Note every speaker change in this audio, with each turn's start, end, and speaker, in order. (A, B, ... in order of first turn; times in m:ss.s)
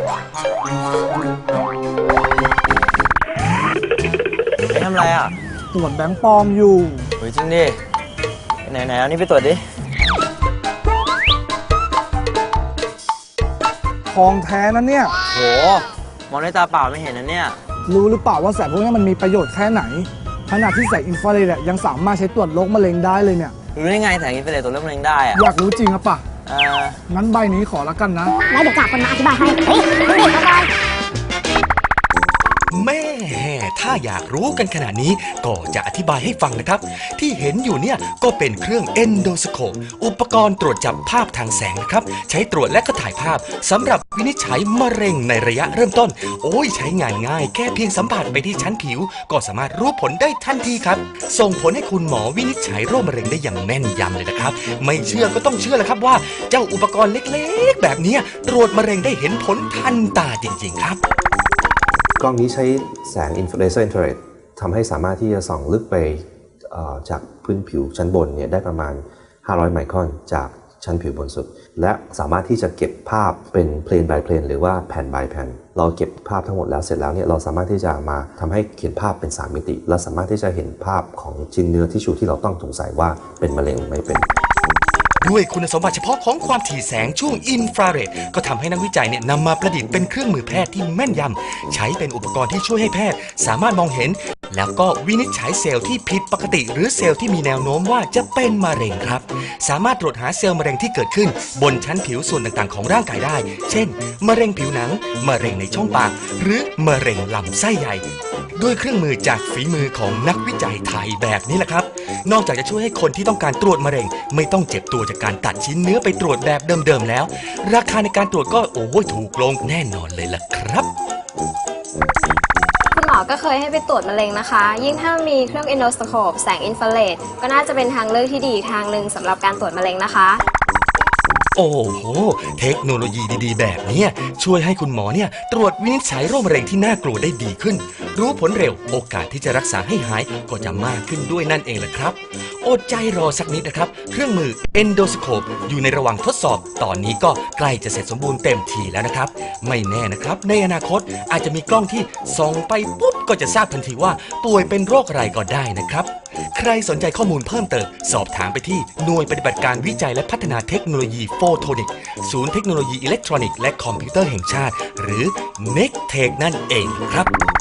0:04.7-0:05.3 A
0:05.7-0:07.1 B
0:07.2-0:07.8 A
0:08.6-0:09.6 A
0:14.1-0:15.1 B
0:15.3-0:17.6 A
0:17.9-0:23.6 B
0:23.8-0:25.4 A
0:25.3-0:26.2 B
0:26.5-0:27.0 A
0:27.1-0:28.3 B
0:28.5-0:30.7 C
0:32.7-1:01.0 D
1:02.2-1:24.3 E
1:25.2-1:48.0 D
1:48.6-2:00.9 D
2:02.9-2:10.4 F
2:11.6-2:47.3 D